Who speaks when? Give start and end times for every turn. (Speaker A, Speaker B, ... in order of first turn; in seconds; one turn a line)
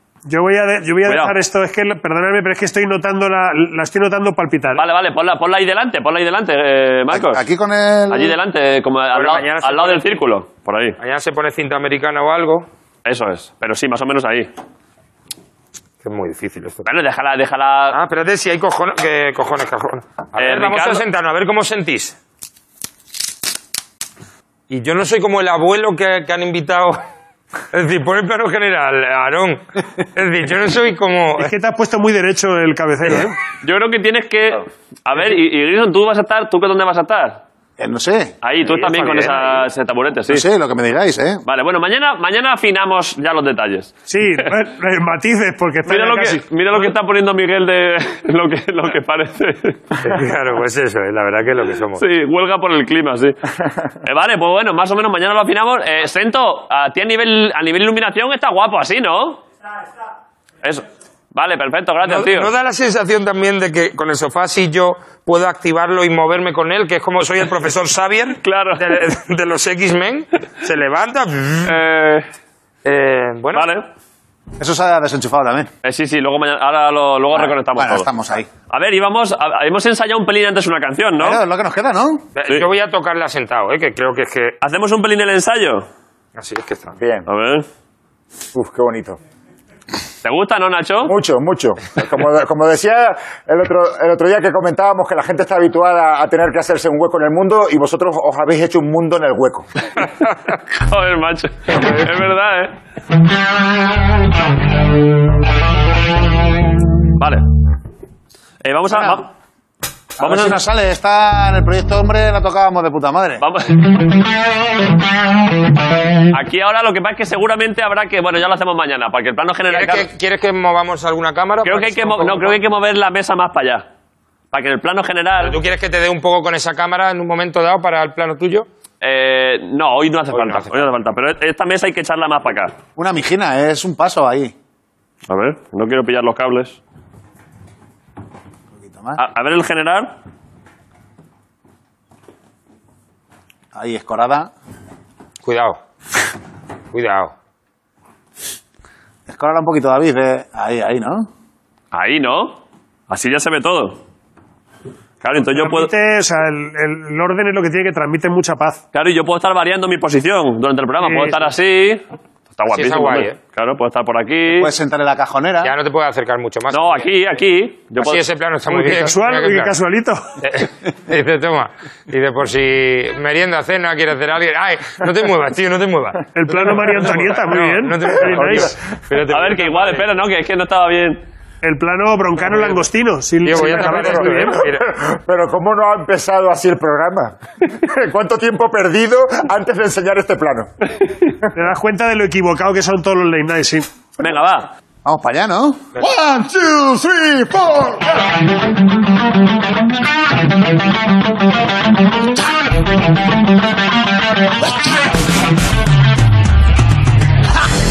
Speaker A: 0.3-4.8
Speaker B: 1.1-1.3
Speaker B: 4.8-7.4
Speaker C: 7.1-8.4
Speaker B: 8.1-11.0
Speaker D: 9.1-10.1
Speaker D: 11.0-12.7
Speaker B: 13.1-14.5
Speaker D: 16.0-16.8
Speaker B: 16.9-17.9
Speaker D: 17.9-22.1
Speaker B: 20.4-21.0
Speaker D: 24.7-27.0
Speaker D: 27.7-29.6
Speaker D: 30.1-31.5
Speaker A: 31.4-33.4
Speaker B: 33.6-37.4
Speaker C: 37.8-38.3
Speaker B: 38.4-40.4
Speaker D: 38.6-39.6
Speaker C: 40.3-41.4
Speaker B: 41.5-44.5
Speaker A: 44.1-46.4
Speaker B: 45.9-49.8
Speaker D: 50.0-52.0
Speaker B: 52.0-53.4
Speaker B: 54.0-59.4
Speaker B: 60.6-62.5
Speaker D: 62.0-71.8
Speaker B: 68.4-69.0
Speaker B: 71.6-72.3
Speaker D: 72.8-73.7
Speaker B: 73.5-73.9
Speaker C: 74.6-75.7
Speaker B: 75.8-78.1
Speaker C: 77.3-78.5
Speaker B: 78.7-81.4
Speaker C: 81.2-82.3
Speaker D: 82.4-84.6
Speaker B: 84.6-85.9
Speaker D: 86.4-86.9
Speaker E: 86.9-87.3
Speaker B: 87.3-87.7
Speaker E: 88.5-89.2
Speaker B: 90.2-91.1
Speaker E: 91.0-99.7
Speaker B: 100.7-102.7
Speaker B: 107.2-107.5
Speaker B: 108.6-109.3
Speaker C: 108.9-109.2
Speaker C: 110.2-113.4
Speaker B: 110.2-110.6
Speaker B: 113.4-114.0
Speaker B: 116.3-120.1
Speaker D: 119.7-122.6
Speaker B: 121.6-123.9
Speaker B: 124.5-125.5
Speaker D: 125.4-128.7
Speaker B: 129.0-132.7
Speaker D: 130.3-130.9
Speaker C: 133.0-134.5
Speaker B: 135.3-136.8
Speaker C: 138.7-139.2
Speaker B: 139.2-140.1
Speaker C: 143.7-144.5
Speaker D: 145.4-145.8
Speaker D: 146.9-147.3
Speaker C: 149.3-151.3
Speaker B: 151.9-154.0
Speaker B: 155.2-155.9
Speaker A: 155.6-158.8
Speaker B: 158.9-162.1
Speaker A: 161.0-161.4
Speaker B: 162.6-164.7
Speaker D: 162.7-163.4
Speaker C: 164.5-165.7
Speaker D: 165.6-167.1
Speaker B: 166.7-168.2
Speaker D: 168.0-169.8
Speaker A: 168.7-170.2
Speaker D: 170.4-180.1
Speaker A: 176.3-178.7
Speaker B: 179.3-181.2
Speaker A: 181.6-184.6
Speaker D: 183.4-184.9
Speaker E: 183.5-190.7
Speaker A: 191.6-193.9
Speaker B: 194.2-194.7
Speaker C: 195.0-195.9
Speaker E: 195.9-198.2